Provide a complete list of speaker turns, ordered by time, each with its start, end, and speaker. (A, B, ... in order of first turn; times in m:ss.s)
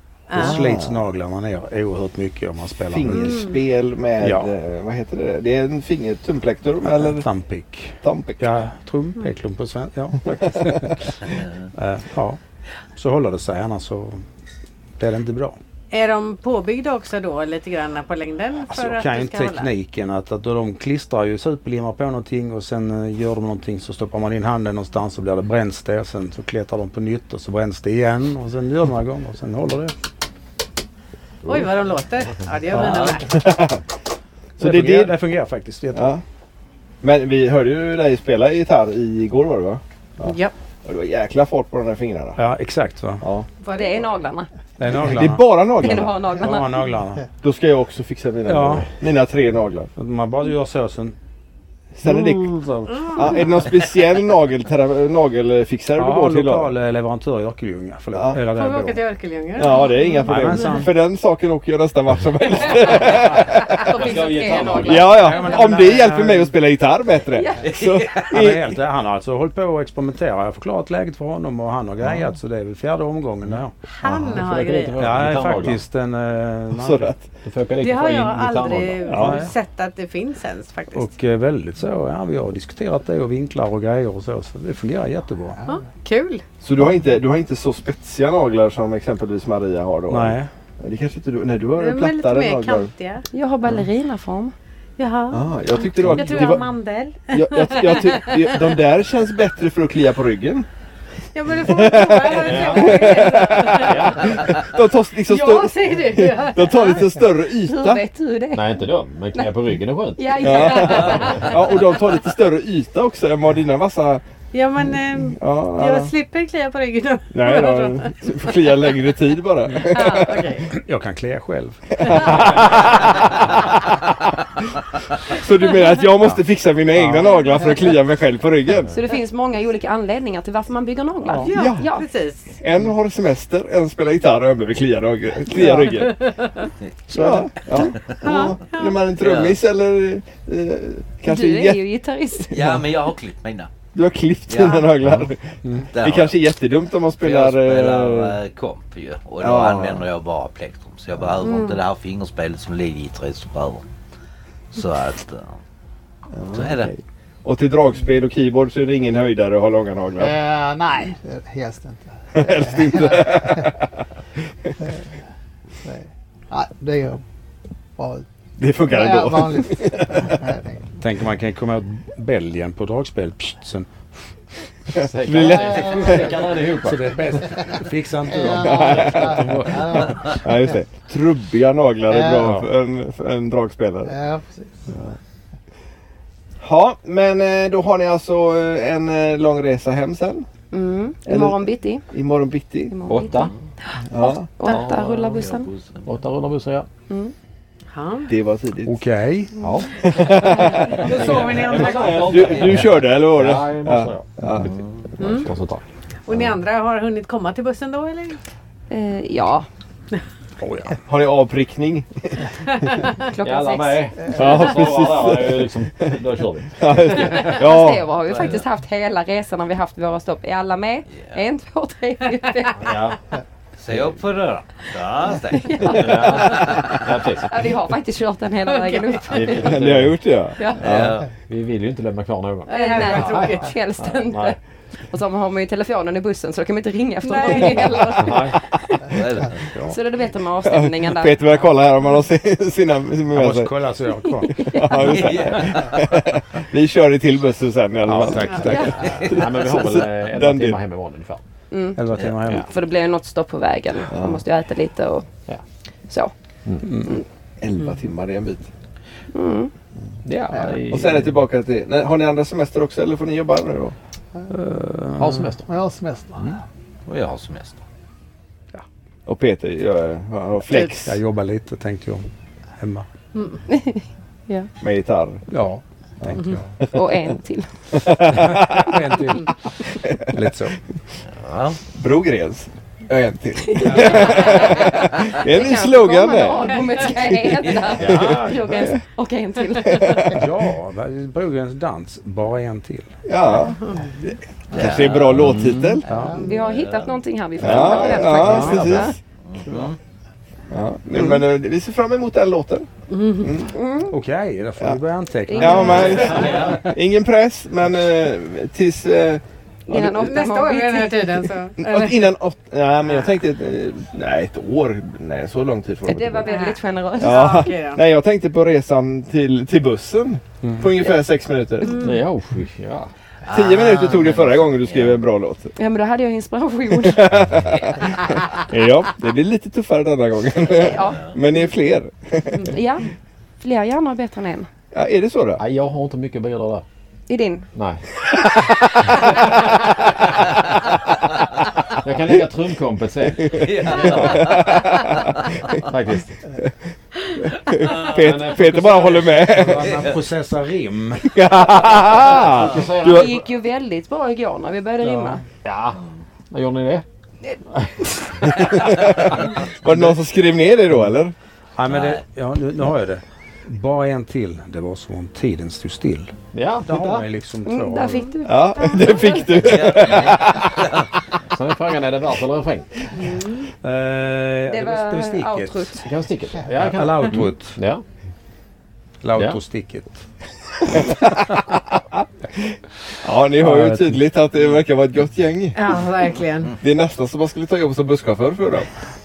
0:00.3-0:00.6 A
0:00.4-0:03.4 B
0:00.4-0:01.0 C
0:02.9-0:07.3 C
0:03.1-0:03.6 A
0:04.2-0:04.5 B
0:06.8-0:12.4 B
0:08.0-0:08.4 C
0:10.2-0:11.0 C
0:12.9-0:14.2 B
0:15.0-0:15.6 B
0:15.9-0:19.7 A
0:18.7-0:29.9 B
0:31.4-0:33.5 A
0:32.7-0:33.2 B
0:33.3-0:33.8 C
0:34.6-0:35.2 C
0:34.6-0:36.2 B
0:35.9-0:36.2 C
0:37.0-0:40.3 C
0:40.2-0:40.5 A
0:40.8-0:42.4 C
0:42.4-0:43.2 B
0:43.2-0:43.5 C
0:43.6-0:44.1 A
0:43.7-0:44.5 D
0:44.8-0:47.3 B
0:44.9-0:46.2 C
0:45.8-0:46.8 D
0:47.4-0:49.9 C
0:48.5-0:48.9 B
0:50.0-0:51.2 B
0:52.0-0:52.5 C
0:52.0-0:53.4 B
0:52.9-0:53.8 A
0:53.1-0:56.7 C
0:56.0-0:59.0 B
0:58.1-0:58.4 C
0:58.4-1:00.8 A
0:59.6-1:03.8 C
1:00.2-1:00.9 B
1:03.6-1:05.9 D
1:03.9-1:05.4 E
1:04.8-1:08.7 C
1:04.9-1:06.5 B
1:07.6-1:08.3 F
1:08.3-1:13.8 B
1:14.0-1:15.0 A
1:14.0-1:15.8 E
1:15.0-1:17.1 B
1:16.7-1:17.2 C
1:17.4-1:19.1 E
1:17.8-1:21.1 A
1:19.1-1:19.4 C
1:19.1-1:19.5 B
1:20.9-1:25.6 B
1:25.6-1:26.4 A
1:26.6-1:32.9 C
1:30.1-1:30.5 B
1:31.8-1:33.2 A
1:33.3-1:34.5 D
1:35.0-1:38.6 A
1:35.3-1:36.7 C
1:36.1-1:36.6 B
1:37.3-1:40.7 C
1:41.3-1:44.4 A
1:41.6-1:48.0 C
1:42.4-1:44.4 E
1:45.3-1:47.1 A
1:47.6-1:49.5 D
1:48.5-1:51.4 E
1:50.2-1:51.7 D
1:50.4-1:54.2 C
1:54.5-1:58.2 A
1:55.4-1:56.1 C
1:57.3-2:00.6 C
1:59.8-2:00.7 A
1:59.9-2:03.4 B
2:02.0-2:02.3 C
2:02.1-2:02.5 A
2:05.3-2:08.9 C
2:07.0-2:07.4 B
2:08.9-2:12.1 D
2:11.2-2:11.6 B
2:11.4-2:12.6 A
2:11.5-2:11.9 C
2:12.6-2:16.3 C
2:15.6-2:16.7 A
2:17.1-2:21.8 C
2:17.1-2:17.5 B
2:18.1-2:19.0 A
2:19.2-2:19.6 F
2:21.3-2:22.6 D
2:22.5-2:22.8 C
2:22.5-2:23.7 F
2:23.9-2:28.4 C
2:24.5-2:24.9 F
2:25.0-2:25.3 E
2:25.9-2:26.4 F
2:27.2-2:33.9 F
2:29.4-2:30.1 C
2:31.4-2:31.7 A
2:34.7-2:35.6 F
2:36.3-2:40.4 C
2:36.5-2:36.9 F
2:40.2-2:43.7 G
2:42.3-2:43.9 C
2:45.8-2:47.2 G
2:48.0-2:48.3 G
2:48.6-2:50.4 C
2:48.9-2:50.8 G
2:51.0-2:53.9 B
2:55.0-2:56.3 C
2:55.0-2:57.2 E
2:55.4-2:56.3 G
2:56.8-3:00.4 B
2:58.3-3:00.7 G
2:58.4-3:04.2 C
3:02.1-3:02.5 G
3:02.4-3:02.7 B
3:04.1-3:04.7 G
3:06.6-3:10.4 C
3:10.7-3:12.0 D
3:11.3-3:13.0 C
3:12.9-3:15.7 D
3:13.1-3:13.5 E
3:14.1-3:14.5 C
3:14.6-3:15.5 E
3:15.0-3:16.2 F
3:16.0-3:16.9 E
3:17.9-3:18.3 A
3:18.3-3:19.0 C
3:18.9-3:19.6 B
3:19.6-3:20.0 E
3:19.9-3:24.7 C
3:20.4-3:20.8 D
3:21.0-3:26.6 E
3:21.0-3:22.5 A
3:24.6-3:25.1 F
3:25.2-3:25.5 A
3:26.3-3:28.4 A
3:28.9-3:29.7 D
3:30.6-3:31.0 B
3:31.1-3:33.0 C
3:33.2-3:34.1 D
3:33.4-3:37.6 E
3:34.3-3:36.2 C
3:36.8-3:38.1 C
3:37.4-3:42.8 D
3:38.3-3:38.6 F
3:42.8-3:43.2 E
3:43.8-3:46.9 F
3:45.6-3:46.7 D
3:45.9-3:47.7 E
3:47.5-3:49.8 D
3:48.7-3:49.2 A
3:49.3-3:50.2 E
3:49.5-3:51.2 C
3:50.6-3:50.8 D
3:50.8-3:51.3 F
3:50.9-3:54.6 E
3:52.7-3:53.7 A
3:52.7-3:54.6 D
3:55.1-3:58.6 D
3:57.2-3:58.4 A
3:58.2-3:58.6 E
3:59.1-3:59.7 F
3:59.9-4:01.6 D
4:00.7-4:03.8 C
4:03.3-4:05.0 B
4:04.4-4:05.2 D
4:04.6-4:10.8 C
4:05.0-4:06.2 F
4:08.1-4:09.2 B
4:08.6-4:09.0 D
4:09.1-4:11.4 E
4:11.7-4:15.3 D
4:12.0-4:12.7 B
4:12.1-4:12.4 F
4:14.1-4:14.4 C
4:16.8-4:17.2 B
4:17.6-4:18.7 C
4:19.3-4:19.7 D
4:20.2-4:21.3 E
4:20.9-4:24.0 C
4:24.5-4:25.5 B
4:25.2-4:25.6 E
4:25.7-4:26.6 G
4:27.1-4:27.8 F
4:29.3-4:31.2 C
4:30.9-4:32.3 B
4:32.8-4:33.1 B
4:33.4-4:33.6 A
4:33.7-4:34.7 D
4:34.8-4:35.5 C
4:35.5-4:36.7 B
4:36.2-4:36.9 C
4:36.9-4:37.7 D
4:37.9-4:38.9 C
4:38.3-4:40.8 B
4:40.0-4:40.3 C
4:41.3-4:41.8 F
4:41.9-4:46.8 C
4:43.7-4:50.3 D
4:43.8-4:44.4 B
4:47.9-4:48.9 E
4:48.0-4:49.0 C
4:49.8-4:50.4 C
4:50.3-4:53.1 B
4:53.3-4:56.0 C
4:53.8-4:54.2 A
4:54.7-4:55.6 F
4:55.3-4:56.0 E
4:56.1-4:56.4 B
4:56.3-4:59.2 D
4:56.6-4:57.2 F
4:57.6-4:59.2 C
4:57.7-4:59.0 B
4:58.4-4:59.0 E
4:59.4-5:00.0 F
5:00.7-5:03.8 C
5:03.1-5:03.6 A
5:03.7-5:04.1 D
5:04.1-5:07.0 B
5:05.5-5:06.4 D
5:05.6-5:10.3 C
5:05.9-5:06.9 E
5:09.9-5:11.5 D
5:09.9-5:12.2 A
5:11.8-5:16.5 C
5:16.0-5:17.7 D
5:16.4-5:18.0 A
5:17.2-5:22.2 C
5:20.6-5:20.9 B
5:21.8-5:22.2 A
5:21.9-5:23.1 E
5:23.4-5:25.2 F
5:23.5-5:25.7 C
5:25.8-5:27.3 D
5:26.9-5:32.7 C
5:30.8-5:31.3 D
5:32.6-5:33.1 D
5:33.6-5:34.7 D
5:34.9-5:35.6 C
5:35.6-5:36.8 E
5:37.3-5:37.7 D
5:37.7-5:38.0 E
5:42.0-5:43.7 E
5:43.5-5:44.9 F
5:44.0-5:45.1 C
5:45.9-5:46.4 E
5:47.4-5:50.0 C
5:48.1-5:49.4 E
5:49.5-5:51.4 B
5:49.8-5:50.2 F
5:51.2-5:53.4 C
5:52.1-5:53.4 E
5:53.0-5:55.4 D
5:55.0-5:55.4 B
5:55.6-5:56.0 E
5:56.5-5:57.0 E
5:58.5-6:01.3 C
5:58.7-5:59.2 F
5:59.9-6:00.1 B
6:01.8-6:08.3 B
6:01.9-6:02.2 F
6:06.5-6:07.3 E
6:07.6-6:09.6 D
6:08.4-6:10.9 C
6:09.6-6:11.1 F
6:11.5-6:12.9 E
6:13.2-6:13.7 A
6:13.8-6:15.9 B
6:14.7-6:16.1 D
6:16.0-6:18.0 E
6:16.7-6:17.8 B
6:19.2-6:20.2 B
6:22.6-6:26.0 C
6:23.6-6:24.2 B
6:25.7-6:26.8 A
6:26.8-6:28.9 C